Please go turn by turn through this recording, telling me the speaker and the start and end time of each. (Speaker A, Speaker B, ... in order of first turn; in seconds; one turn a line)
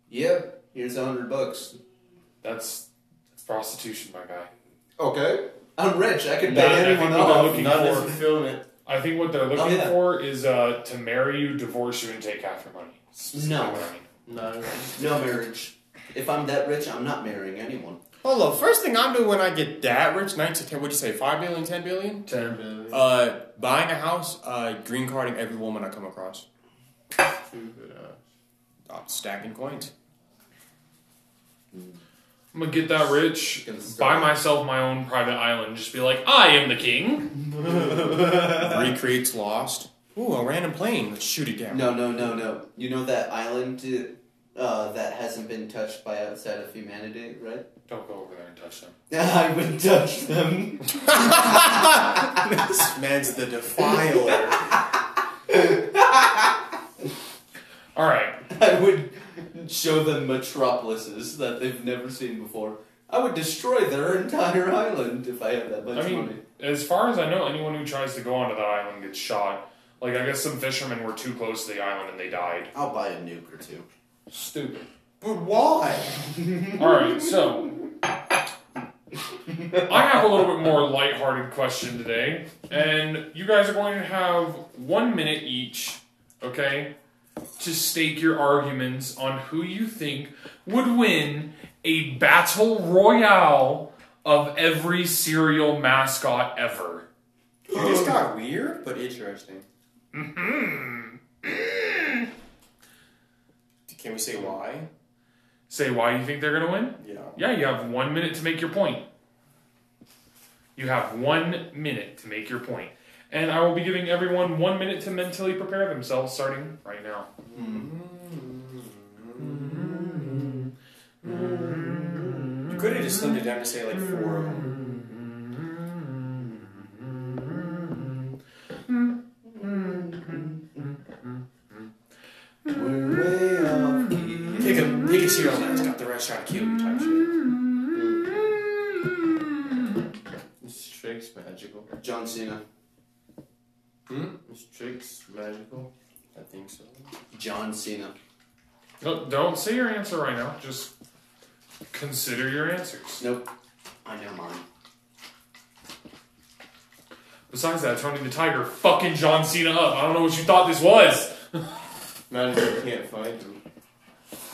Speaker A: 0.1-1.8
Speaker B: 2.4-4.5
Speaker A: 5.0-8.0
Speaker B: 6.5-8.2
Speaker C: 7.1-8.7
Speaker B: 8.8-14.1
Speaker A: 9.6-10.0
Speaker A: 13.3-13.9
Speaker C: 14.3-15.3
Speaker A: 14.9-18.0
Speaker D: 18.2-22.3
Speaker B: 22.3-22.6
Speaker C: 22.3-23.1
Speaker D: 22.9-26.4
Speaker C: 27.2-28.2
Speaker D: 28.9-29.9
Speaker B: 32.5-37.4
Speaker A: 33.6-34.4
Speaker A: 37.5-38.9
Speaker D: 38.2-42.0
Speaker A: 41.7-47.7
Speaker B: 47.9-49.0
Speaker A: 49.1-52.7
Speaker D: 51.0-54.7
Speaker A: 53.8-56.7
Speaker B: 58.0-58.5
Speaker A: 58.5-66.4
Speaker B: 66.0-72.7
Speaker A: 72.7-73.9
Speaker B: 74.3-74.9
Speaker D: 75.2-76.3
Speaker A: 76.3-77.3
Speaker B: 76.7-77.8
Speaker A: 79.5-80.4
Speaker B: 79.9-86.9
Speaker B: 87.6-97.1
Speaker D: 97.7-99.7
Speaker B: 100.1-102.3
Speaker D: 103.9-104.9
Speaker B: 105.7-109.1
Speaker D: 107.0-107.4
Speaker B: 110.8-117.3
Speaker A: 117.5-117.9
Speaker D: 117.6-120.2
Speaker A: 121.2-122.5
Speaker B: 121.3-123.1
Speaker D: 122.7-124.8
Speaker B: 124.2-125.2
Speaker B: 125.9-128.0
Speaker A: 129.5-130.9
Speaker A: 132.7-135.0
Speaker D: 134.6-137.3
Speaker C: 137.9-138.5
Speaker B: 138.4-139.8
Speaker C: 140.6-141.9
Speaker A: 141.9-142.6
Speaker D: 144.1-144.4
Speaker C: 144.4-146.4
Speaker D: 146.4-147.0
Speaker A: 147.3-148.2
Speaker B: 149.0-150.9
Speaker B: 151.9-153.2
Speaker A: 153.2-153.5
Speaker A: 154.1-154.6
Speaker B: 157.5-161.7
Speaker C: 162.3-163.6